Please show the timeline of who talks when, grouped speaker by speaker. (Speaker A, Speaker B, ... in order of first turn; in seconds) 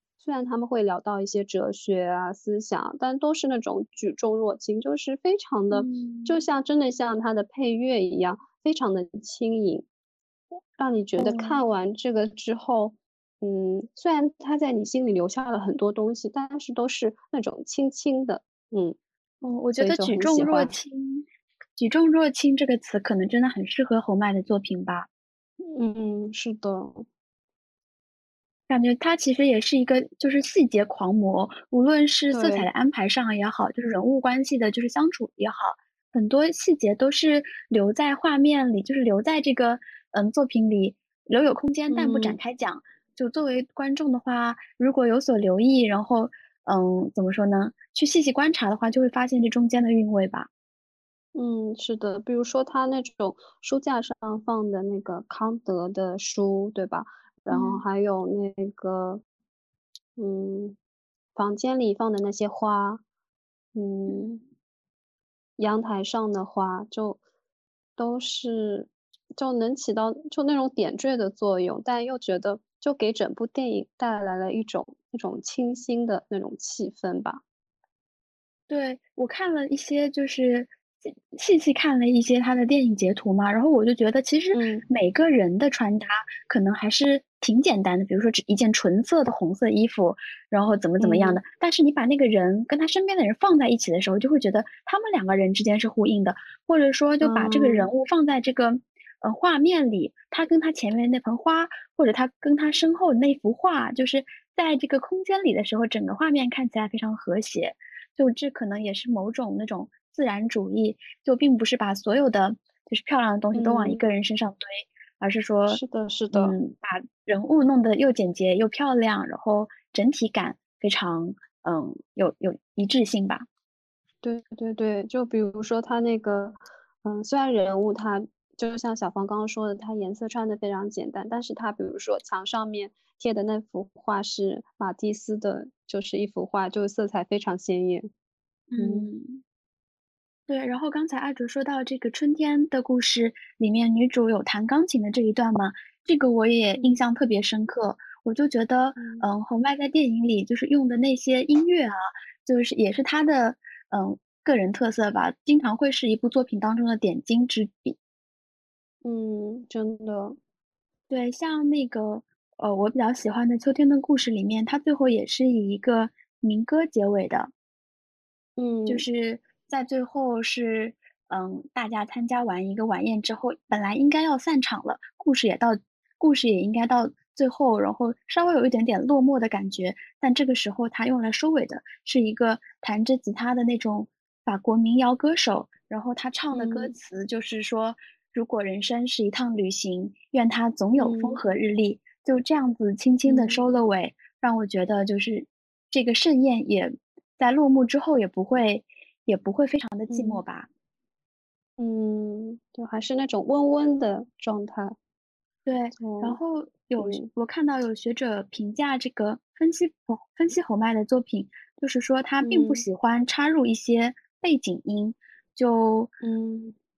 Speaker A: 0.2-9.8, 10.8-18.9, 19.8-20.7, 25.7-27.1, 32.3-32.7, 41.9-42.4, 51.3-59.2, 60.2-60.8, 61.3-63.0, 63.7-64.3, 65.6-67.2, 68.0-77.4, 84.5-84.8, 91.0-91.4, 97.2-97.9, 113.5-114.1, 115.7-116.5, 124.2-138.1, 138.8-139.1, 146.8-147.0, 148.9-149.3, 159.0-160.4, 168.6-169.1, 186.5-186.9, 191.0-191.4, 193.2-193.7, 200.1-200.4, 201.8-204.9, 206.0-206.4, 207.0-207.3, 212.4-212.8, 216.2-216.7
Speaker B: 5.7-6.4, 11.2-11.6, 19.4-21.2, 21.8-25.1, 28.7-50.5, 57.5-57.8, 64.1-64.4, 78.7-123.5, 138.7-139.4, 140.5-158.0, 161.1-167.5, 168.8-200.7, 205.7-216.1